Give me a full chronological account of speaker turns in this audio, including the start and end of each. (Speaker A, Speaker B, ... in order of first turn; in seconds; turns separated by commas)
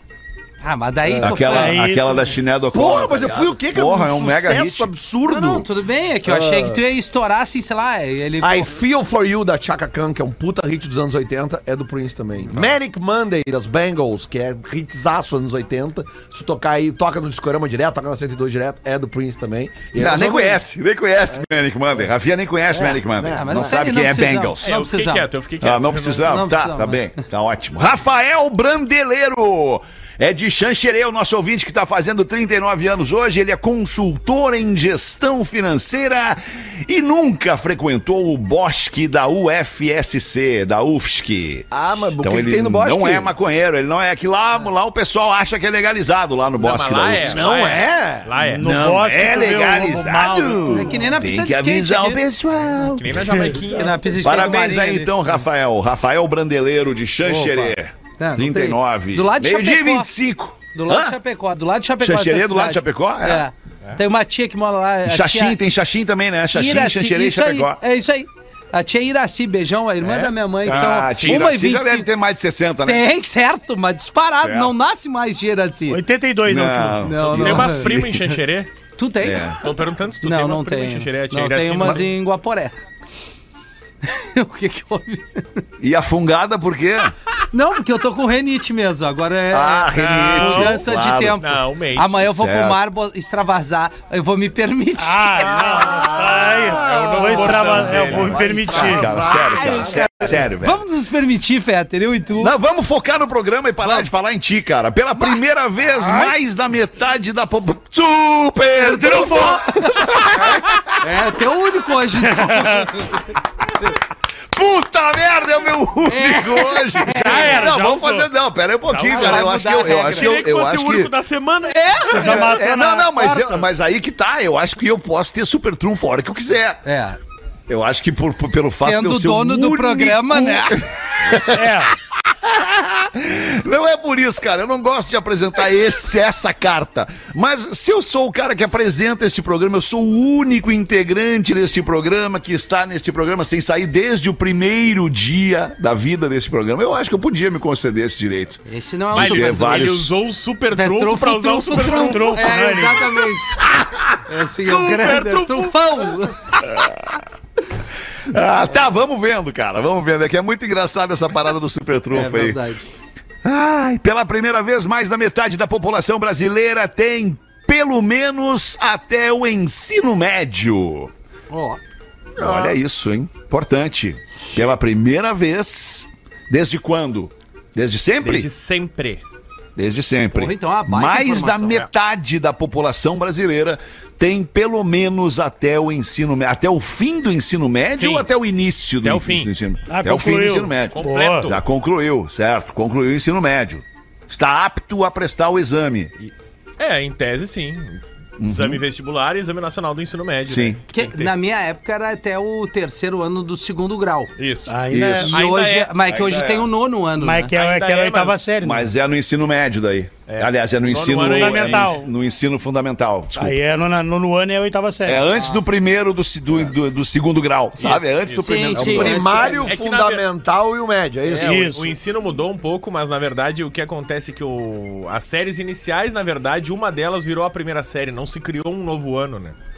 Speaker A: 0.6-1.9, Speaker B: 1.1-1.6, Speaker C: 1.1-4.9, Speaker D: 1.5-2.3, Speaker B: 2.6-5.7, Speaker A: 5.2-8.7, Speaker B: 6.2-6.8, Speaker B: 8.4-20.6, Speaker C: 19.9-24.8, Speaker B: 22.7-23.8, Speaker A: 23.3-25.3, Speaker E: 24.6-26.5, Speaker C: 25.6-47.4, Speaker A: 26.2-27.2, Speaker B: 41.7-43.3, Speaker E: 46.6-48.7, Speaker B: 47.2-48.4, Speaker D: 48.4-51.0, Speaker C: 48.6-53.3, Speaker A: 50.7-52.2, Speaker E: 52.8-54.3, Speaker A: 53.7-55.4, Speaker B: 53.7-54.0, Speaker C: 54.2-61.2, Speaker A: 57.2-60.1, Speaker A: 60.7-65.6, Speaker C: 62.0-63.5, Speaker C: 65.0-67.8, Speaker A: 66.5-72.1, Speaker E: 70.0-71.4, Speaker C: 70.6-73.0, Speaker A: 72.8-76.0, Speaker C: 74.4-74.7, Speaker D: 75.9-77.1, Speaker C: 76.5-78.1, Speaker A: 77.0-77.9, Speaker E: 77.2-78.7, Speaker A: 79.0-79.6, Speaker C: 79.2-79.6, Speaker E: 79.6-82.1, Speaker A: 80.2-82.7, Speaker A: 84.0-85.6, Speaker C: 85.8-87.1, Speaker A: 87.5-95.5, Speaker C: 89.5-91.4, Speaker E: 89.9-92.2, Speaker C: 92.2-92.8, Speaker D: 95.0-99.2, Speaker E: 95.4-98.9, Speaker B: 95.7-100.4, Speaker C: 98.7-100.8, Speaker A: 99.2-102.5, Speaker C: 102.4-110.8, Speaker A: 103.8-104.1, Speaker A: 106.0-106.3, Speaker D: 108.8-109.6, Speaker A: 109.4-110.4, Speaker A: 111.0-113.3, Speaker D: 112.2-112.9, Speaker C: 114.5-121.1, Speaker A: 116.1-117.7, Speaker E: 117.2-118.1, Speaker D: 117.3-118.2, Speaker E: 118.9-122.4, Speaker A: 119.0-120.4, Speaker A: 121.7-122.4, Speaker D: 122.1-123.6, Speaker C: 122.2-126.8, Speaker A: 126.8-127.2, Speaker C: 127.7-150.1, Speaker A: 128.7-130.8, Speaker D: 131.4-131.9, Speaker A: 148.7-149.9, Speaker E: 149.1-152.7, Speaker A: 150.7-153.6, Speaker D: 151.8-153.3, Speaker C: 153.6-154.0, Speaker A: 154.3-156.8, Speaker E: 154.6-156.2, Speaker C: 156.7-157.2, Speaker C: 158.2-162.7, Speaker A: 162.1-162.8, Speaker C: 163.4-171.1, Speaker A: 171.5-171.8, Speaker C: 172.3-178.5, Speaker B: 172.4-172.8, Speaker E: 178.2-179.2, Speaker C: 179.8-196.1, Speaker A: 180.3-181.8, Speaker E: 188.0-188.3, Speaker E: 189.0-189.5, Speaker D: 189.9-191.5, Speaker E: 190.9-191.6, Speaker E: 196.2-201.3, Speaker C: 198.4-198.8, Speaker C: 200.4-200.8, Speaker A: 200.9-204.3, Speaker E: 204.4-204.7, Speaker D: 204.7-205.3, Speaker C: 204.9-205.3, Speaker A: 205.2-207.5, Speaker E: 205.3-206.4, Speaker C: 206.1-206.7, Speaker D: 207.2-208.9, Speaker E: 207.5-208.5, Speaker C: 208.6-213.6, Speaker E: 210.3-212.0, Speaker D: 211.2-212.1, Speaker D: 213.3-215.2, Speaker C: 215.0-219.2, Speaker A: 215.3-215.6, Speaker E: 217.8-220.3, Speaker A: 218.4-219.7, Speaker B: 218.8-221.7, Speaker E: 221.3-229.6, Speaker D: 221.4-221.9